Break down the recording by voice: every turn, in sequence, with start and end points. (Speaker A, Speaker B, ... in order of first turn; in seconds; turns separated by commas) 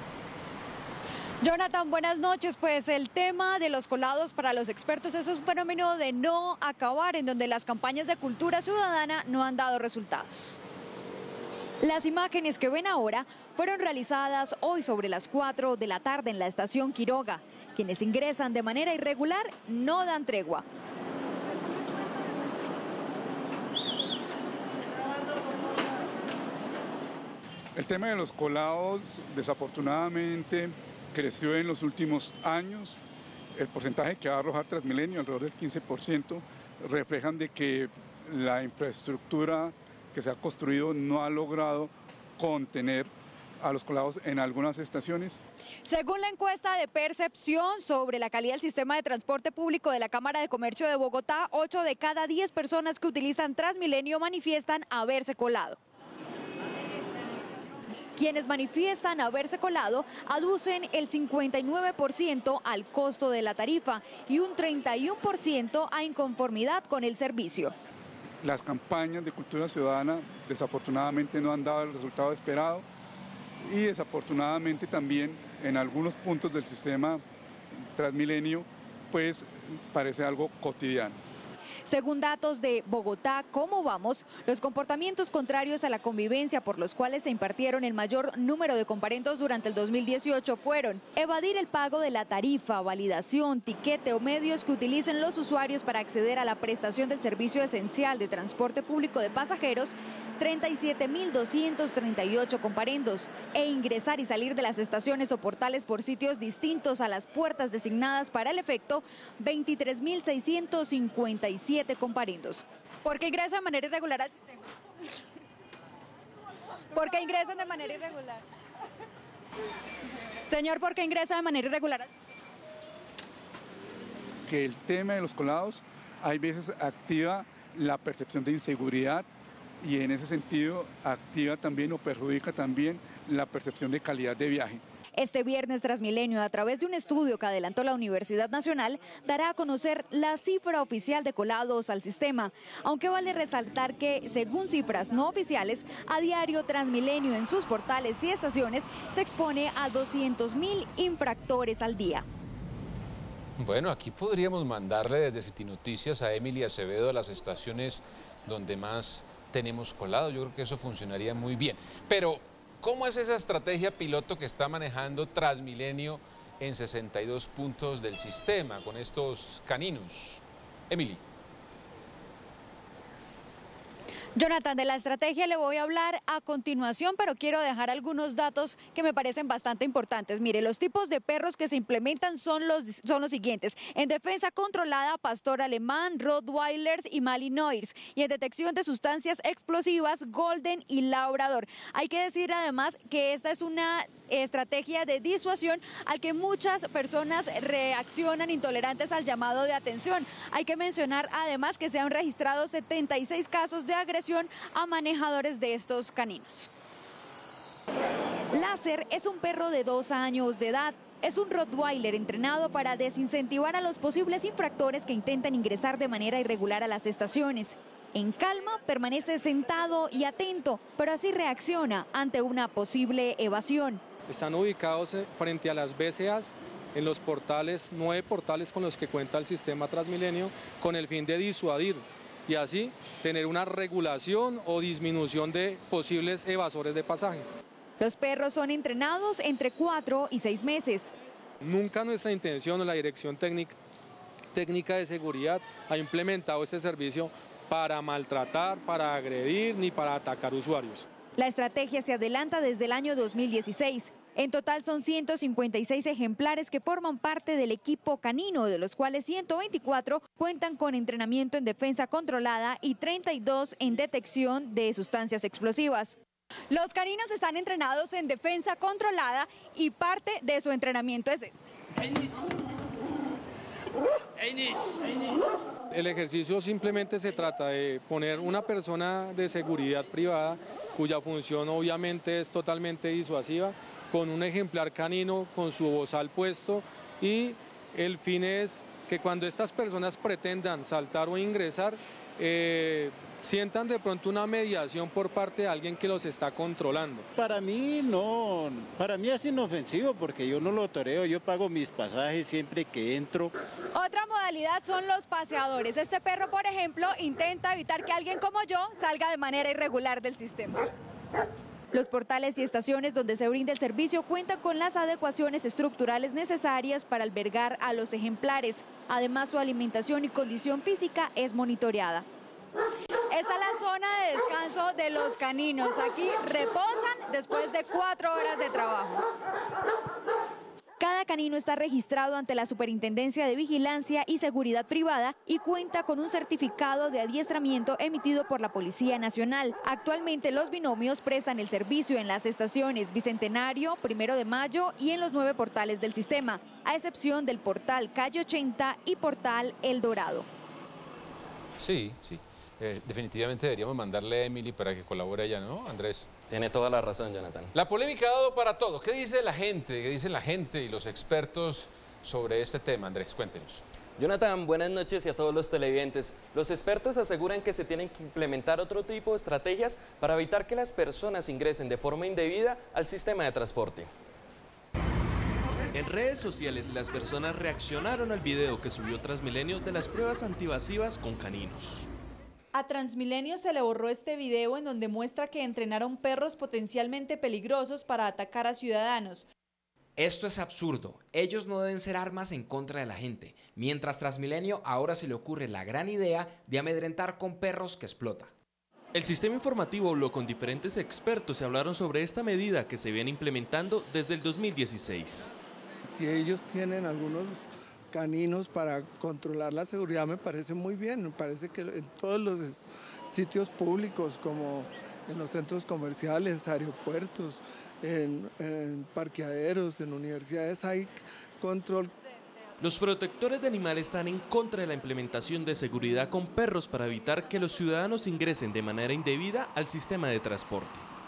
Speaker A: 1.4-10.6, Speaker A: 11.8-20.6, Speaker B: 27.8-33.0, Speaker B: 33.5-45.4, Speaker A: 45.9-55.8, Speaker A: 58.2-67.8, Speaker B: 68.4-72.8, Speaker B: 73.6-77.2, Speaker B: 78.0-81.2, Speaker A: 81.9-114.7, Speaker A: 116.9-118.4, Speaker A: 120.5-122.1, Speaker B: 124.5-129.3, Speaker B: 129.8-134.8, Speaker A: 135.2-152.2, Speaker C: 153.6-171.2, Speaker A: 174.4-206.7, Speaker A: 208.5-224.0, Speaker D: 224.3-237.5, Speaker A: 238.0-241.1, Speaker D: 241.6-243.8, Speaker D: 244.5-251.1, Speaker A: 251.4-266.2, Speaker A: 266.7-271.5, Speaker D: 275.9-297.3, Speaker E: 297.4-303.5, Speaker A: 303.9-310.8, Speaker A: 311.9-322.2, Speaker A: 323.3-329.2, Speaker A: 331.0-350.5, Speaker C: 351.8-356.3, Speaker F: 356.5-357.7, Speaker C: 357.7-363.8, Speaker F: 364.2-374.1, Speaker G: 375.9-382.1, Speaker H: 382.8-384.3, Speaker H: 388.0-388.5, Speaker I: 390.2-398.5, Speaker G: 399.1-405.5, Speaker J: 406.1-422.1, Speaker G: 422.8-431.1